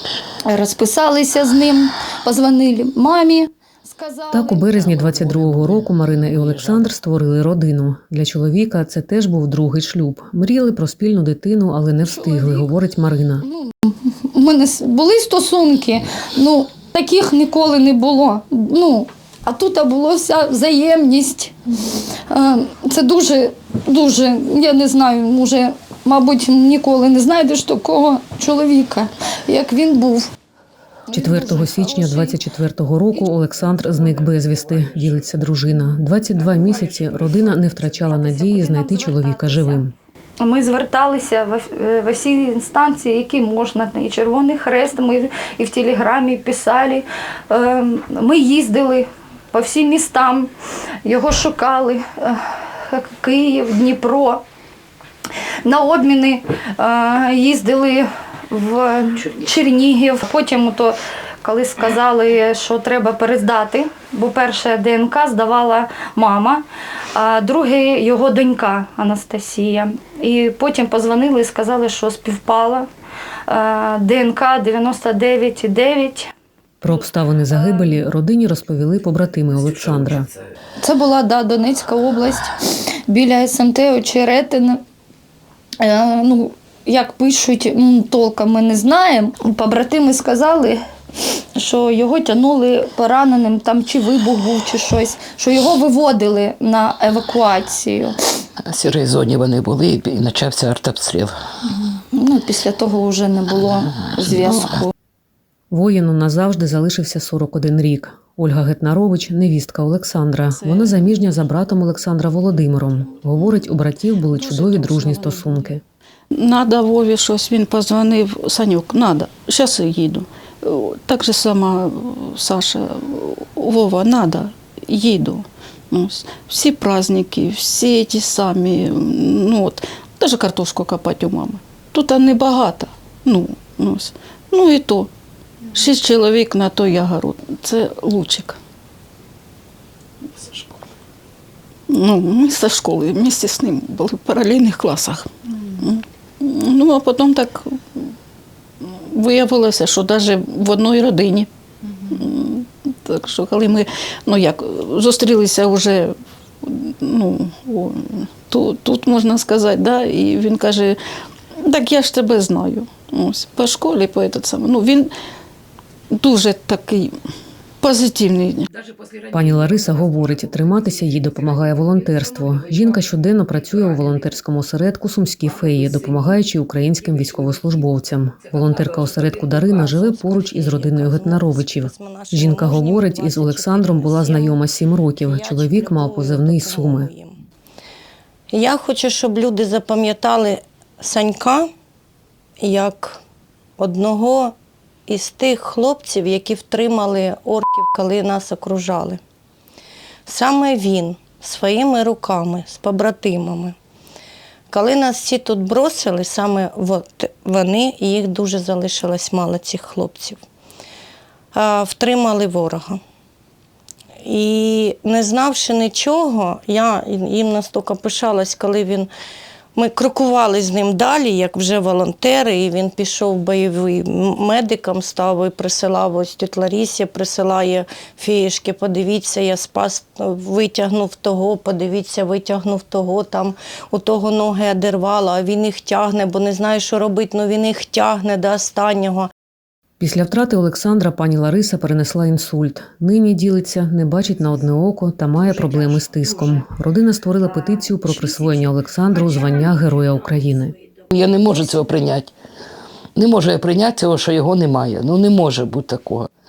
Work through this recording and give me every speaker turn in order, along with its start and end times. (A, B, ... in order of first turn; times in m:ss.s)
0:00.5-0:04.8 A
0:04.3-0:13.4 B
0:04.7-0:06.9 C
0:13.4-0:30.3 A
0:31.1-0:32.4 A
0:31.1-0:39.9 B
0:38.0-0:39.8 A
0:40.4-0:50.5 A
0:51.0-0:54.4 A
0:55.6-1:12.9 A
1:13.5-1:16.3 A
1:16.8-1:20.3 B
1:20.8-1:24.8 A
1:25.8-1:30.8 A
1:31.6-1:38.2 A
1:38.7-1:41.4 C
1:41.9-1:44.9 A
1:45.7-1:55.8 B
1:50.6-1:51.0 D
1:54.4-1:55.6 D
1:56.3-2:15.1 D
2:15.7-2:18.6 D
2:21.9-2:28.1 D
2:28.8-2:31.5 D
2:32.1-2:41.0 D
2:41.6-2:45.1 D
2:46.2-2:47.2 D
2:47.8-2:48.7 D
2:49.3-3:07.1 B
3:00.1-3:04.6 E
3:05.2-3:07.4 E
3:08.5-3:11.7 E
3:12.6-3:13.2 E
3:13.8-3:14.5 E
3:15.1-3:19.2 E
3:20.3-3:23.8 E
3:24.7-3:30.4 E
3:31.5-3:33.0 E
3:34.2-3:39.1 E
3:39.8-3:59.3 E
4:00.0-4:10.8 B
4:11.1-4:12.3 C
4:13.2-4:16.3 C